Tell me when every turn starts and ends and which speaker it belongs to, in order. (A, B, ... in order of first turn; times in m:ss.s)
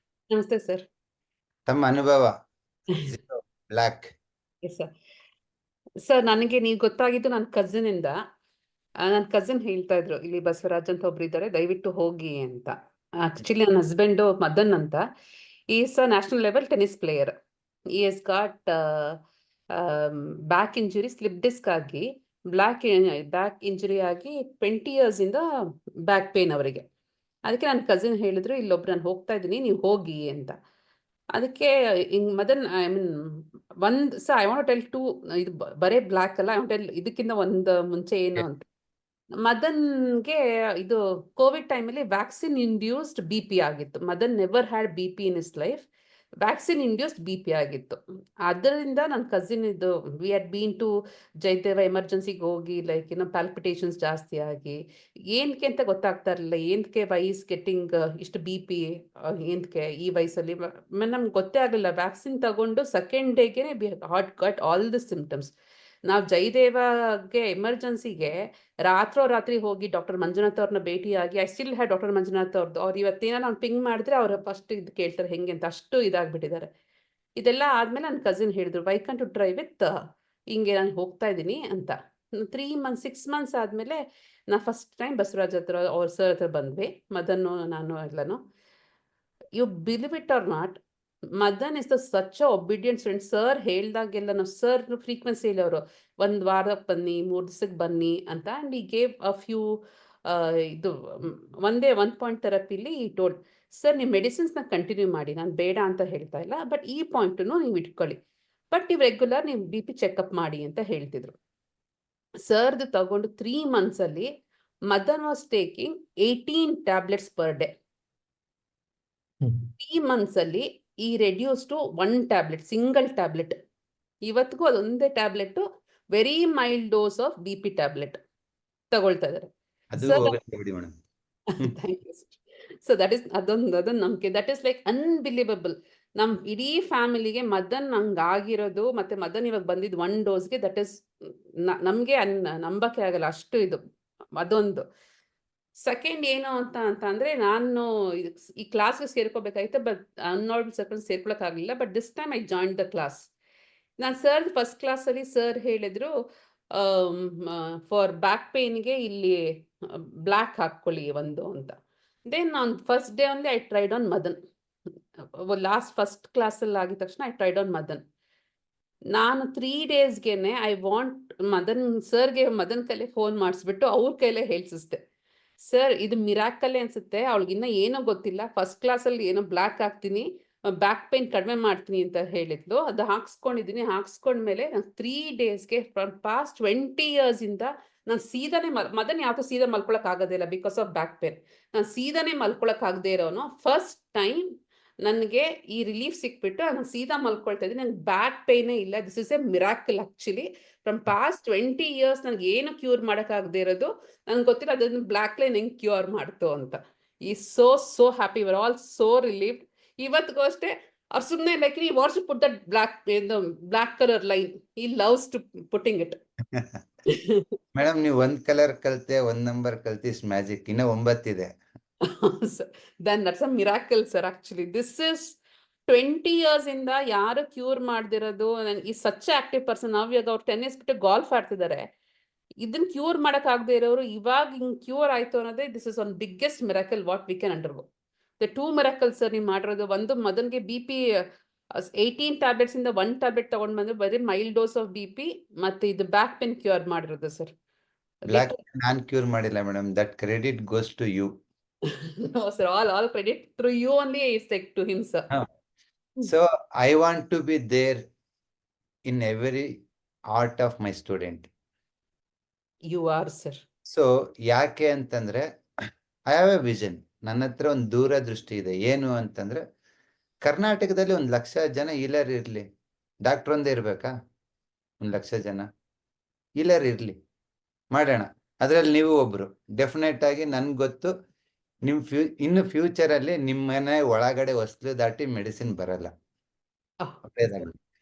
0:00.3-0:00.8 A
0:01.7-0:02.3 B
0:03.1-0:04.1 B
0:04.6-0:04.9 A
0:06.0-0:08.2 A
0:09.0-0:15.0 A
0:15.7-0:17.3 A
0:17.9-0:19.2 A
0:19.7-0:25.4 A
0:26.0-0:26.8 A
0:27.5-0:30.5 A
0:31.3-0:38.6 A
0:39.4-0:45.9 A
0:46.4-0:50.9 A
0:51.4-1:05.5 A
1:06.1-1:16.7 A
1:17.4-1:19.9 A
1:20.5-1:28.4 A
1:29.5-1:30.8 A
1:31.4-1:51.3 A
1:52.4-1:54.3 A
1:54.9-1:57.7 A
1:59.8-2:03.5 A
2:04.2-2:08.2 A
2:08.9-2:10.4 A
2:09.9-2:10.9 B
2:11.5-2:23.8 A
2:24.4-2:24.8 A
2:25.8-2:33.3 A
2:34.0-2:36.1 A
2:36.7-2:41.7 A
2:42.3-2:44.4 A
2:45.2-2:48.0 A
2:49.1-2:55.0 A
2:55.6-3:14.5 A
3:15.0-3:36.2 A
3:37.7-3:41.5 B
3:42.1-3:51.8 A
3:52.6-3:57.8 A
3:58.4-4:01.0 A
4:01.8-4:07.5 A
4:08.2-4:08.6 A
4:08.3-4:11.3 B
4:11.9-4:15.3 A
4:16.2-4:18.0 B
4:19.1-4:19.7 B
4:20.3-4:21.5 B
4:22.9-4:23.6 A
4:23.9-4:25.4 B
4:26.3-4:29.6 B
4:30.4-4:32.6 B
4:33.2-4:34.1 B
4:35.0-4:35.6 B
4:36.6-4:37.1 B
4:37.9-4:41.1 B
4:41.8-4:46.1 B
4:47.2-4:47.8 B